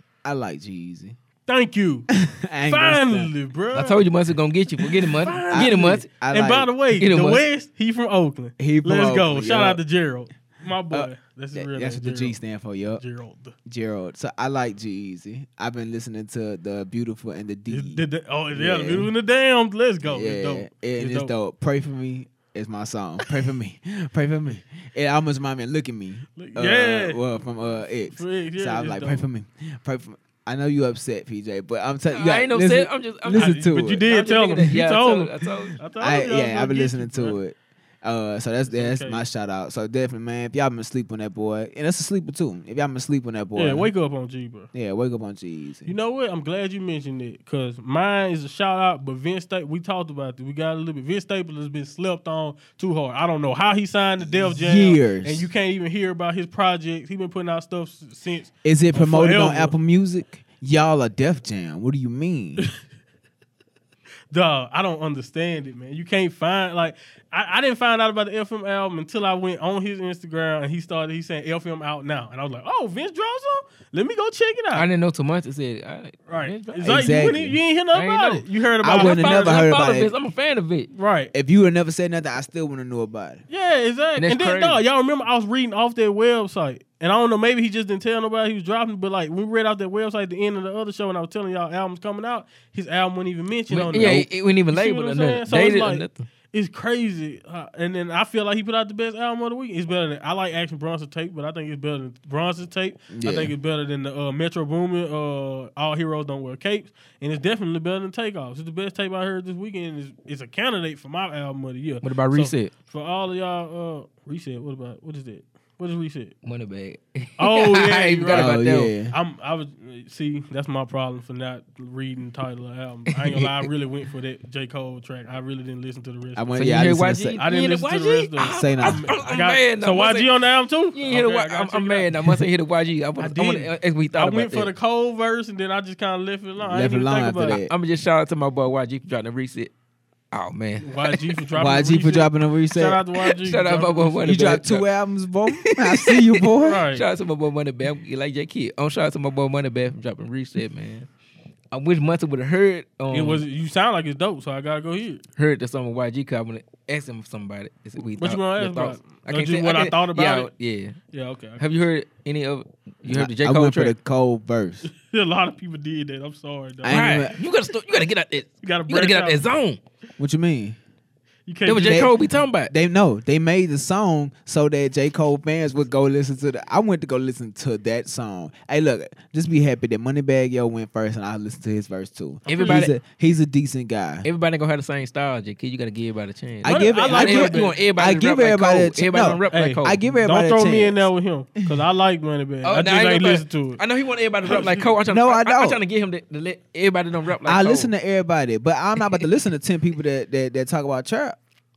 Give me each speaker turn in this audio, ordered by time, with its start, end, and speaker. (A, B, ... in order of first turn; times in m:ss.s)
0:00.2-0:01.2 A
0:01.4-0:02.1 B
0:02.2-0:03.3 A
0:02.6-0:04.0 B
0:03.7-0:06.1 C
0:04.9-0:12.4 B
0:05.5-0:06.7 A
0:06.9-0:07.4 C
0:08.6-0:09.8 A
0:10.9-0:13.0 A
0:13.0-0:13.6 B
0:13.6-0:19.1 A
0:17.7-0:21.3 B
0:20.0-0:34.0 A
0:26.4-0:27.2 B
0:28.1-0:29.2 B
0:32.1-0:35.8 C
0:33.3-0:37.4 B
0:36.0-0:43.9 A
0:38.7-0:39.2 B
0:43.6-0:44.7 B
0:44.7-0:45.9 A
0:45.8-0:59.8 B
0:54.4-0:55.5 A
0:58.6-1:02.6 A
1:04.3-1:14.9 B
1:14.7-1:17.1 C
1:16.3-1:19.6 B
1:16.8-1:17.6 A
1:17.9-1:20.9 C
1:18.8-1:20.1 A
1:20.9-1:21.3 B
1:21.3-1:23.4 A
1:23.5-1:56.4 B
1:24.2-1:24.8 C
1:33.7-1:36.2 C
1:43.1-1:43.5 A
1:52.0-1:52.7 C
1:56.4-1:58.9 C
1:57.4-2:12.2 B
1:58.3-1:59.2 A
2:03.1-2:03.6 C
2:06.4-2:07.4 A
2:06.6-2:10.3 C
2:08.4-2:09.1 A
2:10.9-2:14.7 C
2:13.2-2:17.6 B
2:16.6-2:17.7 A
2:17.7-2:19.7 C
2:20.3-2:21.3 C
2:20.8-2:24.2 B
2:21.6-2:23.0 A
2:23.2-2:24.9 C
2:24.2-2:26.8 A
2:25.5-2:31.1 C
2:26.6-2:27.0 B
2:31.7-2:33.4 C
2:33.1-2:35.2 B
2:35.4-2:41.0 C
2:38.2-2:40.5 B
2:41.1-2:41.7 B
2:41.6-2:43.9 C
2:43.1-2:44.9 A
2:44.8-2:47.2 B
2:46.8-2:47.4 A
2:46.9-2:49.8 C
2:48.6-2:49.4 B
2:50.2-2:50.8 A
2:51.5-2:52.2 B
2:51.6-2:52.7 C
2:51.8-2:52.1 A
2:52.7-3:04.2 A
3:02.4-3:02.8 B
3:02.5-3:02.9 C
3:04.2-3:10.0 C
3:06.6-3:11.0 A
3:06.6-3:07.7 B
3:09.5-3:13.8 B
3:12.6-3:17.9 C
3:14.4-3:14.8 B
3:14.5-3:15.8 A
3:17.4-3:21.4 A